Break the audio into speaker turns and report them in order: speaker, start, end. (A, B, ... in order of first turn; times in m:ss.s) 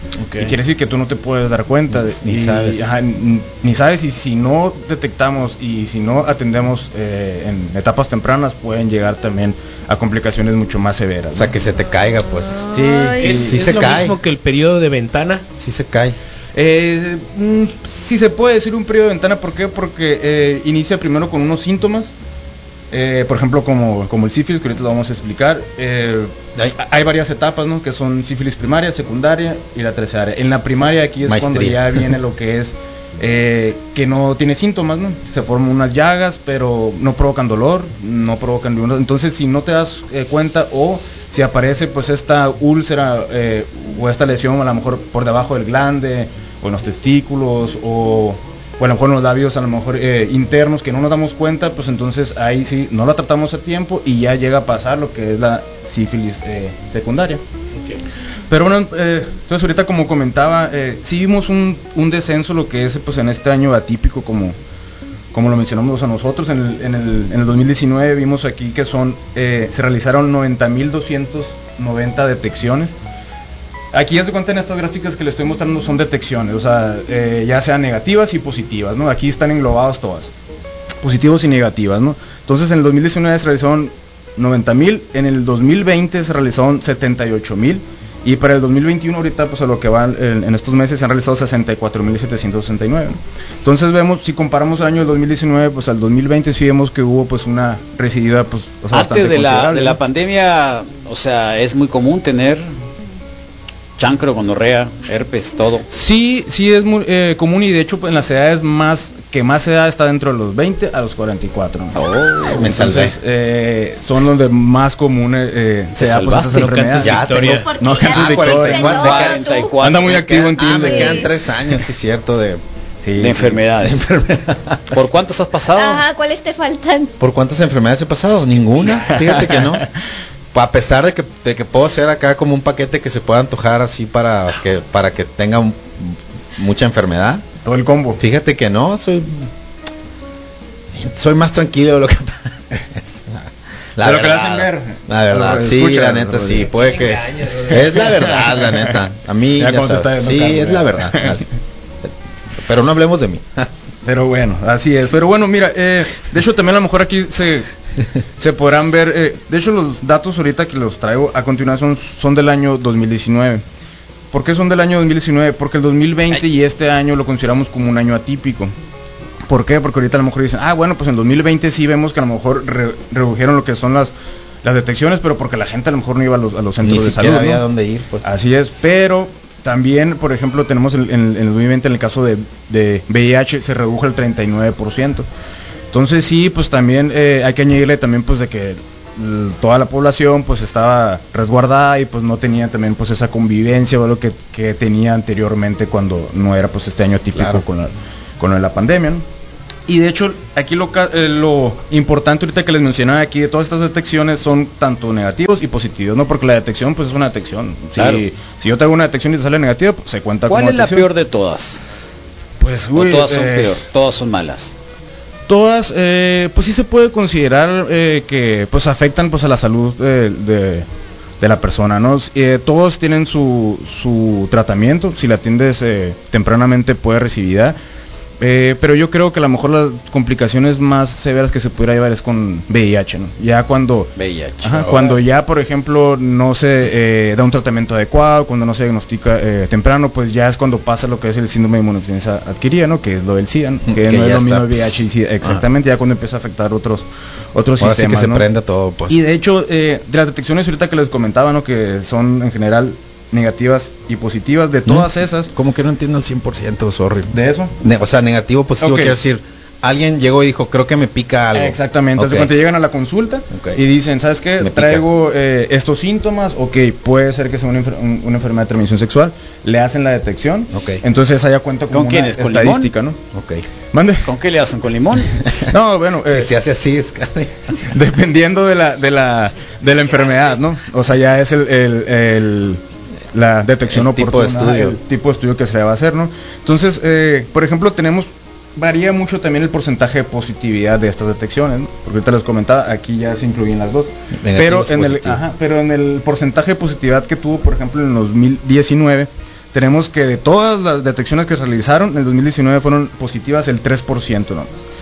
0:00.2-0:00.5 A
0:00.4-0:11.5 B
0:01.9-0:02.9 A
0:11.3-0:12.6 A
0:12.7-0:13.6 B
0:12.8-0:13.2 C
0:13.2-0:15.4 D
0:13.4-0:14.2 A
0:15.5-0:16.2 A
0:16.5-0:22.1 B
0:22.9-0:57.4 B
0:31.2-0:32.1 A
0:58.5-1:04.5 B
1:05.3-1:12.9 B
1:13.9-1:20.3 B
1:21.0-1:40.0 B
1:38.9-1:42.6 E
1:44.0-1:45.8 E
1:45.9-1:52.0 B
1:51.9-1:52.9 E
1:52.4-1:53.1 A
1:52.6-1:59.2 B
1:56.0-1:57.1 E
1:57.0-2:02.6 A
1:57.2-1:59.8 C
1:57.2-1:57.7 D
1:58.8-2:00.5 E
1:59.8-2:01.3 B
2:00.7-2:01.3 C
2:03.0-2:03.6 B
2:03.2-2:04.1 E
2:03.8-2:05.0 A
2:04.9-2:06.0 E
2:05.7-2:07.1 C
2:07.2-2:09.9 A
2:09.0-2:09.9 B
2:10.5-2:17.4 A
2:17.6-2:18.2 B
2:18.2-2:19.5 A
2:20.9-2:31.4 A
2:24.0-2:26.7 B
2:26.5-2:28.3 D
2:27.9-2:29.0 B
2:29.6-2:31.4 B
2:32.0-2:33.7 A
2:34.0-2:37.7 B
2:38.4-2:43.6 B
2:44.3-2:48.7 B
2:49.5-2:54.1 B
2:54.6-2:57.6 B
2:56.8-2:58.3 A
2:58.2-3:05.2 B
3:05.9-3:19.2 B
3:17.2-3:17.6 A
3:19.9-3:31.1 B
3:28.0-3:28.2 E
3:30.5-3:31.8 E
3:32.6-3:33.8 B
3:32.9-3:34.7 E
3:35.5-3:40.8 B
3:41.4-3:47.8 B
3:48.4-3:54.1 B
3:54.2-3:55.1 E
3:54.6-4:08.4 B
4:03.8-4:05.6 A
4:07.8-4:09.2 A
4:09.1-4:15.5 B
4:14.8-4:22.5 A
4:17.3-4:17.7 B
4:18.8-4:19.2 B
4:21.5-4:33.2 B
4:23.5-4:23.8 A
4:24.6-4:25.0 A
4:30.7-4:31.0 A
4:31.9-4:32.9 E
4:33.3-4:33.6 A
4:33.9-4:34.3 B
4:34.2-4:35.4 E
4:35.6-4:36.5 B
4:36.2-4:37.7 A
4:37.8-4:42.8 B
4:40.0-4:40.4 E
4:43.3-5:04.8 B
4:43.9-4:45.0 A
4:54.4-4:55.4 A